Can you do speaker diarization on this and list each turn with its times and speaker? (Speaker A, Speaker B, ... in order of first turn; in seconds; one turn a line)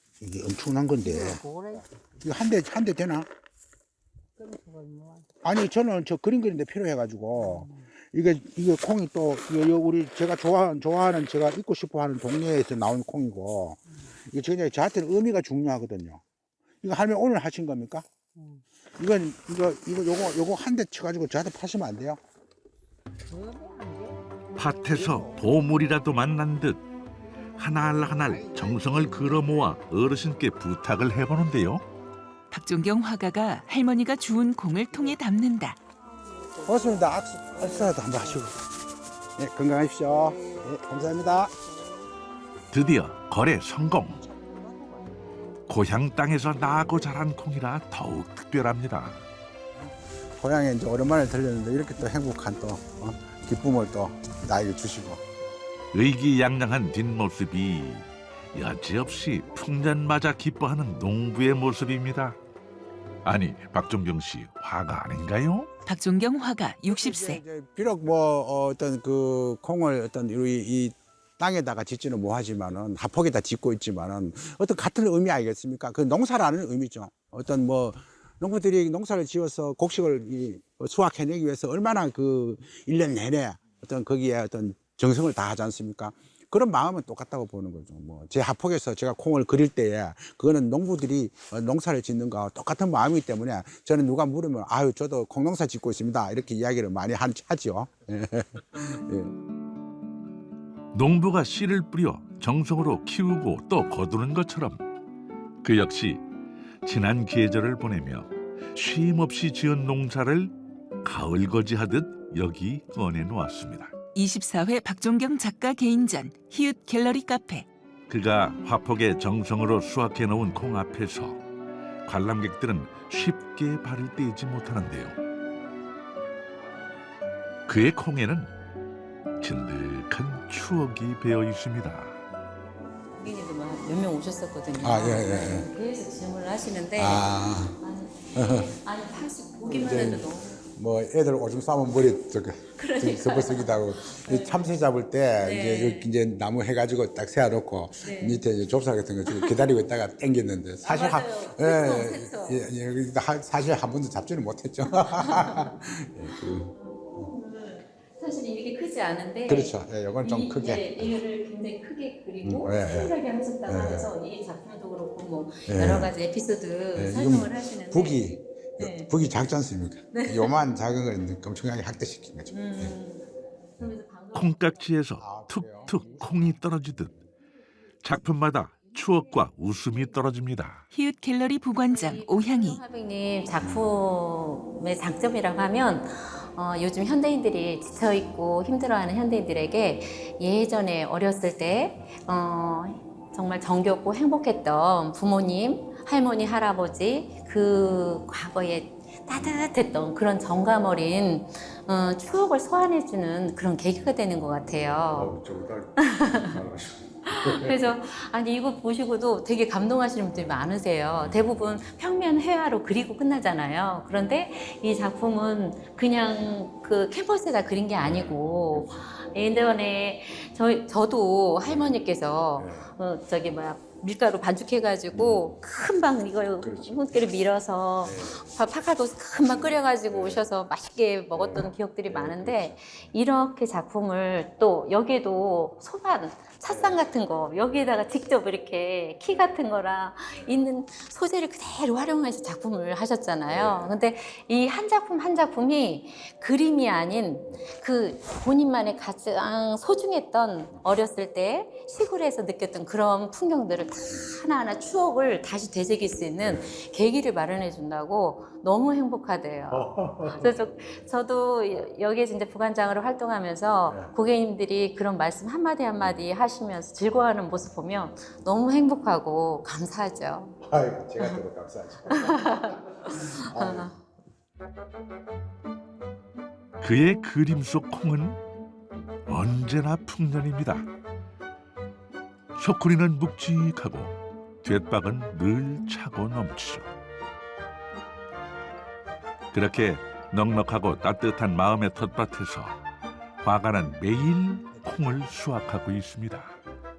Speaker A: 0.2-1.4
Speaker B: 1.0-1.9
Speaker A: 2.2-3.3
Speaker B: 4.4-5.2
Speaker A: 5.4-16.2
Speaker B: 7.4-7.8
Speaker A: 16.8-18.0
Speaker B: 18.4-18.6
Speaker A: 19.0-22.2
Speaker B: 23.3-24.2
Speaker C: 24.6-26.8
Speaker C: 27.6-31.8
Speaker D: 32.5-35.8
Speaker B: 36.4-36.7
Speaker A: 36.6-38.6
Speaker A: 39.4-41.5
Speaker C: 42.7-44.2
Speaker B: 44.4-45.1
Speaker C: 45.7-49.2
Speaker A: 50.4-55.2
Speaker C: 55.9-62.4
Speaker C: 63.2-65.7
Speaker D: 65.9-67.4
Speaker A: 66.9-99.3
Speaker C: 100.9-104.8
Speaker C: 105.6-106.2
Speaker C: 106.8-113.9
Speaker D: 114.1-117.7
Speaker C: 118.1-121.4
Speaker C: 122.0-125.1
Speaker C: 127.7-128.5
Speaker C: 129.4-132.2
Speaker E: 133.2-140.6
Speaker A: 134.8-135.7
Speaker A: 136.9-137.8
Speaker A: 138.3-138.7
Speaker A: 139.6-157.3
Speaker E: 142.8-144.6
Speaker E: 145.4-146.1
Speaker E: 148.0-148.4
Speaker E: 149.3-149.6
Speaker E: 150.8-152.6
Speaker E: 154.9-155.8
Speaker E: 156.7-168.3
Speaker A: 159.5-161.2
Speaker A: 162.4-164.1
Speaker A: 165.7-166.1
Speaker A: 166.9-172.9
Speaker E: 168.8-169.1
Speaker E: 170.1-170.5
Speaker E: 172.5-174.7
Speaker C: 174.3-177.2
Speaker A: 175.2-176.6
Speaker C: 178.0-180.8
Speaker D: 180.9-182.8
Speaker E: 181.8-205.3
Speaker A: 183.6-184.0
Speaker A: 205.1-207.8
Speaker E: 206.0-206.6
Speaker E: 207.2-270.6
Speaker A: 218.0-219.0
Speaker A: 221.7-221.9
Speaker A: 222.6-222.9
Speaker A: 225.1-225.5
Speaker A: 226.6-227.1
Speaker A: 228.0-228.6
Speaker A: 229.3-230.5
Speaker A: 231.3-233.1
Speaker A: 236.7-237.1
Speaker A: 240.3-240.6
Speaker A: 243.5-243.9
Speaker A: 256.4-256.8
Speaker A: 259.7-260.6
Speaker A: 263.9-264.1
Speaker A: 270.6-273.9
Speaker E: 272.1-273.9
Speaker C: 276.8-278.4
Speaker C: 279.2-280.9
Speaker C: 282.5-286.9
Speaker C: 289.5-292.8
Speaker C: 293.4-296.6